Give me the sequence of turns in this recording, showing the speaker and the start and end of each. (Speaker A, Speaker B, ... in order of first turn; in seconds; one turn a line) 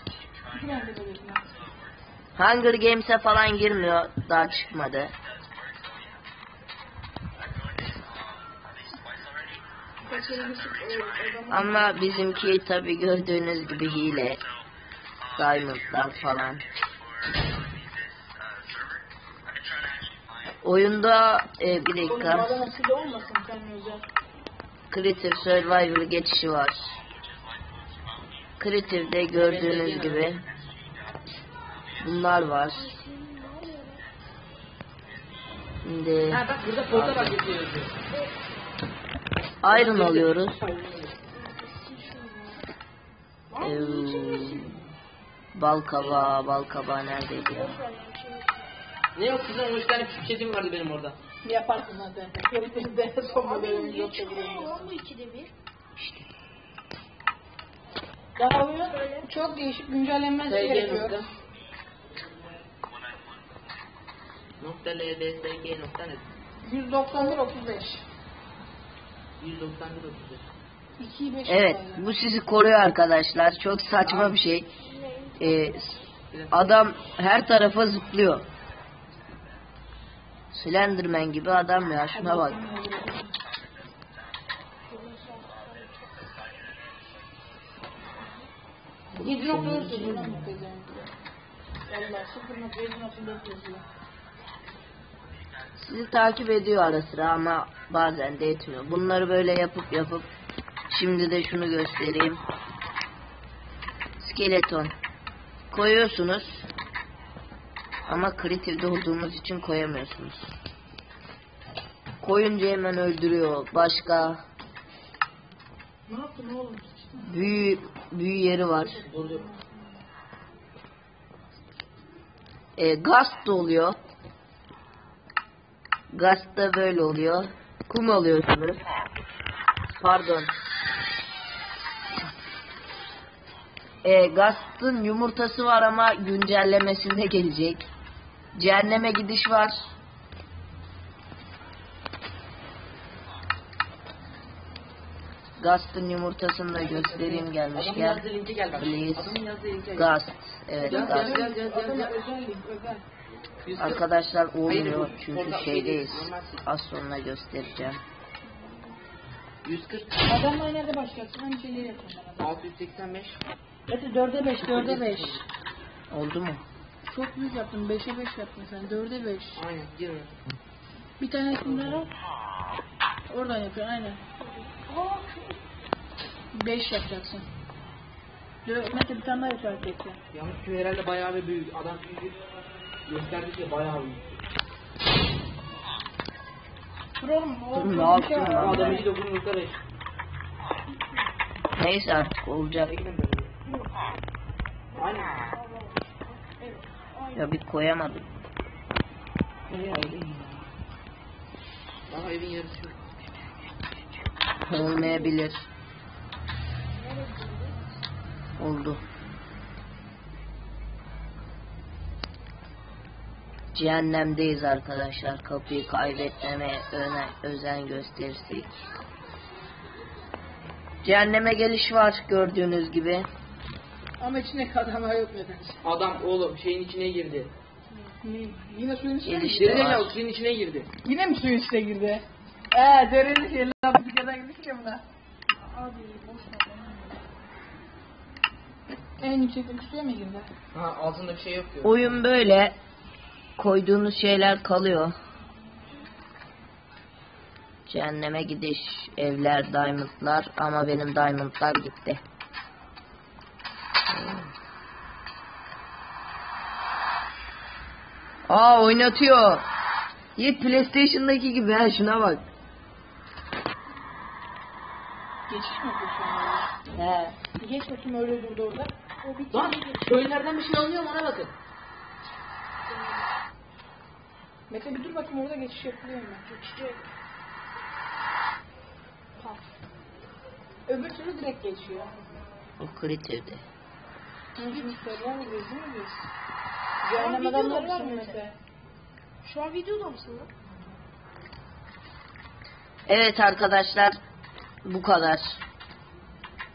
Speaker A: 0.5-1.4
Speaker B: 2.4-5.1
Speaker A: 10.1-11.9
Speaker C: 10.4-11.3
Speaker B: 11.5-14.4
Speaker B: 15.3-16.6
Speaker B: 20.6-22.5
Speaker A: 22.0-24.1
Speaker B: 24.9-27.0
Speaker B: 28.6-30.4
Speaker D: 29.3-30.3
Speaker B: 32.0-33.0
Speaker C: 32.8-34.0
Speaker B: 35.8-37.4
Speaker D: 36.3-38.0
Speaker B: 39.6-40.6
Speaker D: 39.6-41.2
Speaker C: 41.3-42.6
Speaker C: 43.5-44.8
Speaker B: 43.6-44.8
Speaker B: 45.5-47.8
Speaker D: 46.0-46.3
Speaker C: 47.3-48.7
Speaker D: 49.1-51.2
Speaker A: 51.4-54.9
Speaker C: 53.4-55.5
Speaker A: 58.4-61.2
Speaker C: 59.0-59.2
Speaker D: 60.5-61.2
Speaker D: 64.6-66.2
Speaker A: 66.6-68.0
Speaker D: 69.4-70.4
Speaker A: 71.0-72.1
Speaker B: 71.5-74.7
Speaker D: 74.0-74.4
Speaker C: 75.0-75.3
Speaker B: 75.4-78.5
Speaker D: 76.3-76.7
Speaker B: 80.5-82.6
Speaker A: 82.1-83.4
Speaker C: 84.9-86.0
Speaker D: 89.2-90.5
Speaker A: 89.2-91.0
Speaker A: 91.9-93.8
Speaker B: 95.8-100.3
Speaker B: 100.9-102.4
Speaker B: 104.2-104.9
Speaker B: 105.7-106.7
Speaker B: 108.1-110.5
Speaker B: 112.2-114.4
Speaker A: 116.1-117.6
Speaker B: 117.2-119.0
Speaker A: 118.9-119.8
Speaker D: 119.0-119.4
Speaker B: 122.8-124.0
Speaker B: 126.1-128.8
Speaker B: 130.0-130.5
Speaker B: 134.0-137.8
Speaker B: 138.5-139.9
Speaker B: 145.6-148.2
Speaker D: 146.8-150.1
Speaker B: 148.8-149.3
Speaker B: 149.9-151.4
Speaker A: 150.8-153.0
Speaker D: 150.8-152.1
Speaker D: 153.6-154.0
Speaker B: 153.8-158.0
Speaker D: 154.7-156.6
Speaker D: 159.6-160.2
Speaker A: 160.2-162.5
Speaker D: 162.4-163.4
Speaker A: 163.9-165.4
Speaker D: 164.6-165.4
Speaker B: 166.1-166.6
Speaker A: 167.1-169.6
Speaker D: 169.5-170.3
Speaker A: 171.2-172.1
Speaker D: 171.6-172.0
Speaker A: 173.3-174.2
Speaker C: 174.9-175.3
Speaker A: 176.5-177.5
Speaker A: 178.6-180.2
Speaker D: 180.3-182.4
Speaker D: 183.1-184.3
Speaker C: 187.2-188.6
Speaker A: 187.3-189.1
Speaker B: 187.7-189.1
Speaker D: 188.5-189.8
Speaker B: 191.8-192.9
Speaker D: 192.8-193.5
Speaker D: 194.9-195.6
Speaker C: 195.6-197.3
Speaker B: 197.3-198.3
Speaker D: 199.7-200.2
Speaker B: 199.7-200.5
Speaker D: 202.1-203.1
Speaker B: 204.7-205.7
Speaker C: 207.0-207.7
Speaker B: 208.6-209.0
Speaker B: 213.7-218.7
Speaker B: 221.0-223.3
Speaker A: 224.2-225.8
Speaker D: 225.8-227.5
Speaker A: 228.2-230.0
Speaker B: 229.2-230.1
Speaker D: 229.5-230.9
Speaker A: 231.0-235.0
Speaker A: 235.7-237.1
Speaker C: 236.0-236.6
Speaker A: 239.2-240.5
Speaker D: 240.7-242.2
Speaker B: 241.8-242.7
Speaker B: 243.6-245.1
Speaker B: 247.9-252.2
Speaker B: 254.1-254.5
Speaker B: 258.5-259.6
Speaker B: 260.4-262.4
Speaker A: 265.5-266.7
Speaker B: 266.9-267.4
Speaker A: 267.5-269.6
Speaker C: 269.2-270.0
Speaker D: 269.5-271.5
Speaker A: 274.7-276.8
Speaker C: 276.6-277.0
Speaker A: 280.9-282.1
Speaker B: 282.8-283.6
Speaker A: 284.6-286.2
Speaker A: 287.0-288.6
Speaker C: 287.1-288.4
Speaker C: 289.4-290.5
Speaker B: 293.1-294.1
Speaker B: 294.8-295.6